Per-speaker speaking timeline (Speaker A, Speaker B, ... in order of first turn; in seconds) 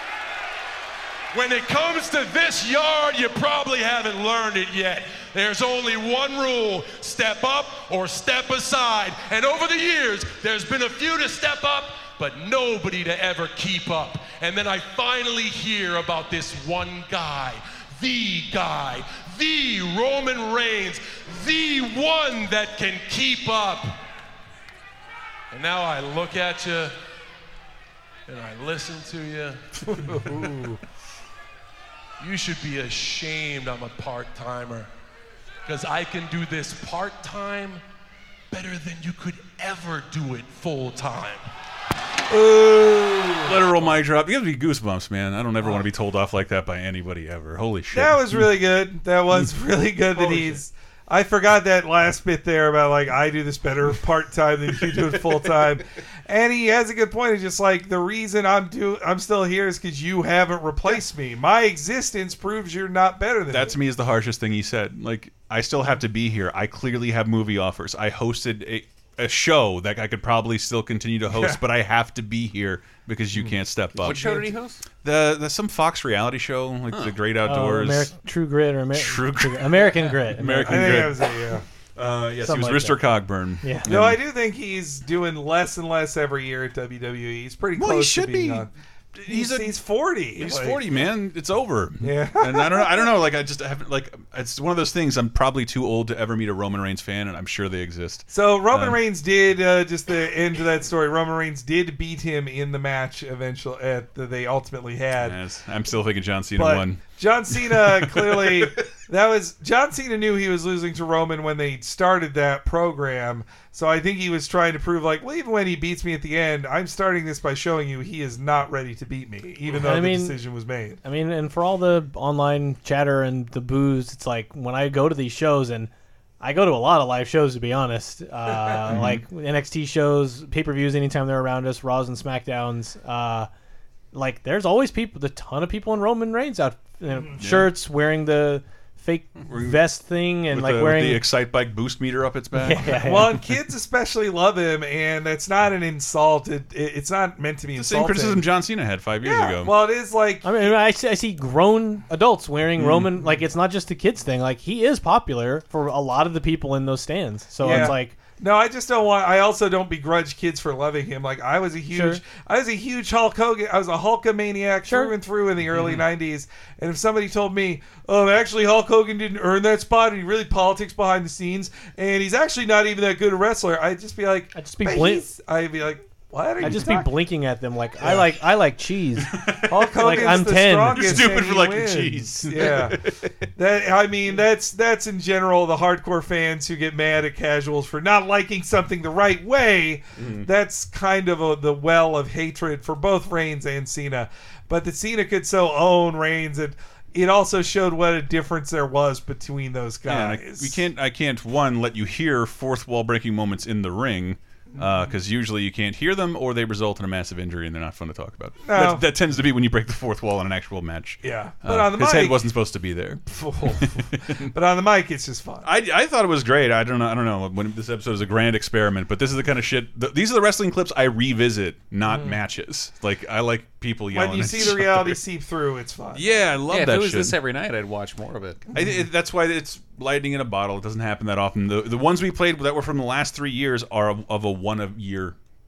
Speaker A: 1.3-24.0, 25.5-26.9, 28.3-30.8, 32.2-34.9, 35.7-37.8, 38.5-41.5
Speaker B: 29.9-30.8, 42.3-43.6, 47.9-63.8, 71.3-71.6, 80.6-81.7, 83.9-88.7, 89.3-90.8, 92.0-93.1, 98.3-105.4, 106.6-121.0, 143.0-148.5, 149.2-150.6, 157.6-177.1, 179.7-183.0, 183.6-200.8, 204.7-205.1, 208.6-209.0, 211.2-212.4, 213.3-215.7, 222.1-222.4, 224.1-226.4, 228.7-229.1
Speaker C: 43.5-48.4, 50.2-50.6, 63.5-74.5, 75.0-78.2, 78.9-81.3, 82.0-84.2, 87.8-89.7, 90.3-99.0, 105.2-107.0, 107.5-108.6, 128.9-129.2, 137.4-137.7, 139.5-139.8, 140.5-143.1, 147.8-149.7, 152.8-153.1, 157.6-158.0, 179.3-179.7, 181.0-183.3, 190.2-190.5, 200.1-214.5, 215.6-225.2, 226.1-227.3, 228.7-235.4
Speaker D: 74.0-74.8, 226.7-228.6
Speaker E: 77.4-81.1, 82.4-83.0, 83.6-83.9, 119.7-120.4, 121.0-133.5, 134.1-141.2, 142.6-143.4, 150.4-158.2, 161.9-162.2, 164.9-165.1, 174.5-175.2, 176.6-179.4, 179.9-181.3